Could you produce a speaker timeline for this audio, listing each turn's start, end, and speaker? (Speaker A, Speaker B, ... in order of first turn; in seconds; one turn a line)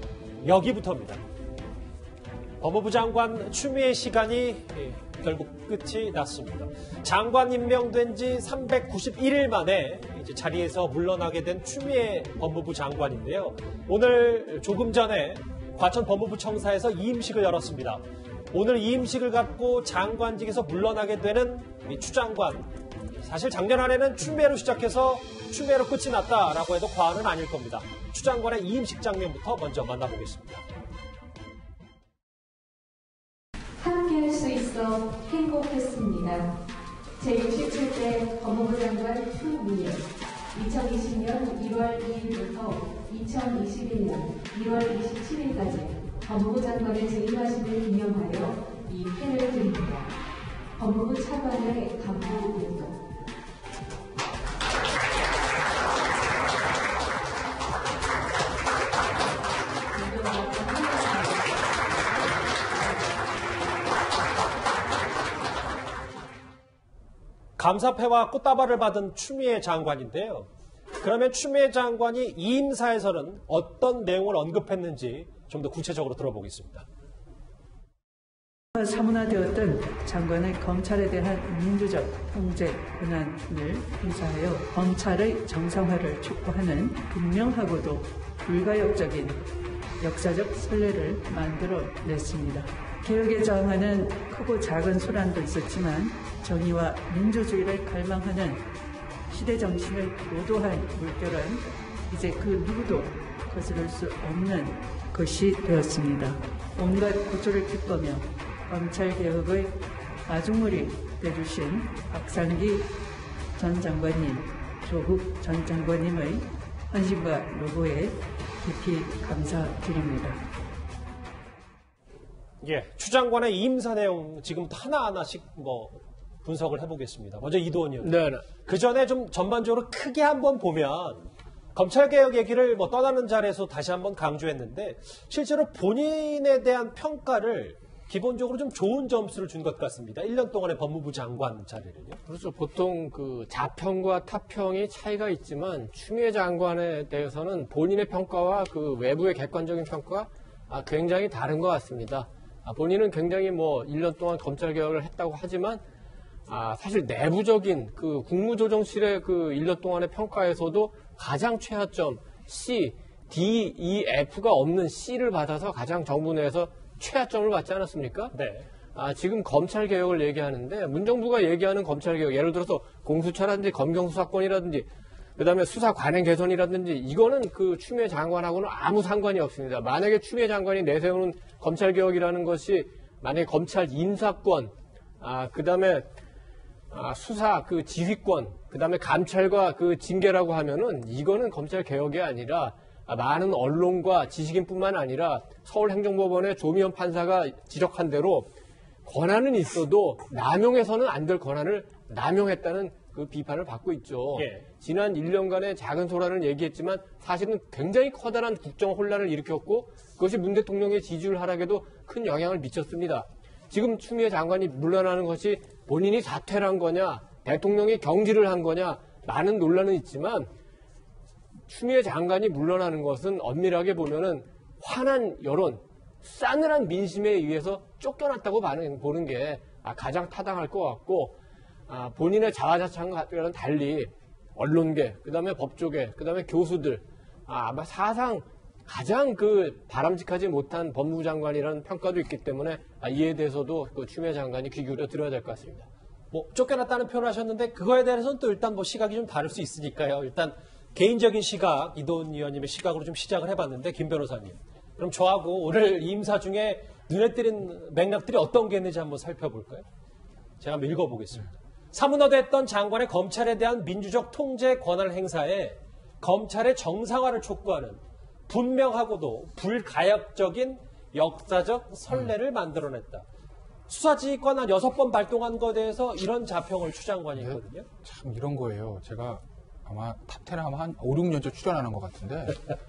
Speaker A: 0.4-1.2
Speaker A: 2.6-22.7
Speaker A: 23.2-30.6
Speaker B: 33.9-36.5
Speaker B: 37.2-40.0
Speaker B: 40.5-50.1
Speaker B: 50.8-52.9
Speaker B: 60.0-61.2
Speaker A: 67.6-76.8
Speaker C: 78.8-89.4
Speaker C: 90.0-98.6
Speaker C: 99.3-109.8
Speaker C: 110.3-112.9
Speaker C: 113.6-120.4
Speaker A: 122.6-142.2
Speaker D: 128.0-128.4
Speaker D: 142.3-155.8
Speaker D: 156.5-168.3
Speaker A: 168.3-168.7
Speaker D: 168.9-186.1
Speaker D: 186.9-198.5
Speaker D: 199.1-220.5
Speaker A: 204.4-204.7
Speaker D: 221.7-231.4
Speaker D: 231.9-245.9
Speaker A: 246.3-259.9
Speaker A: 260.6-273.2
Speaker A: 273.9-277.9
Speaker E: 278.0-282.6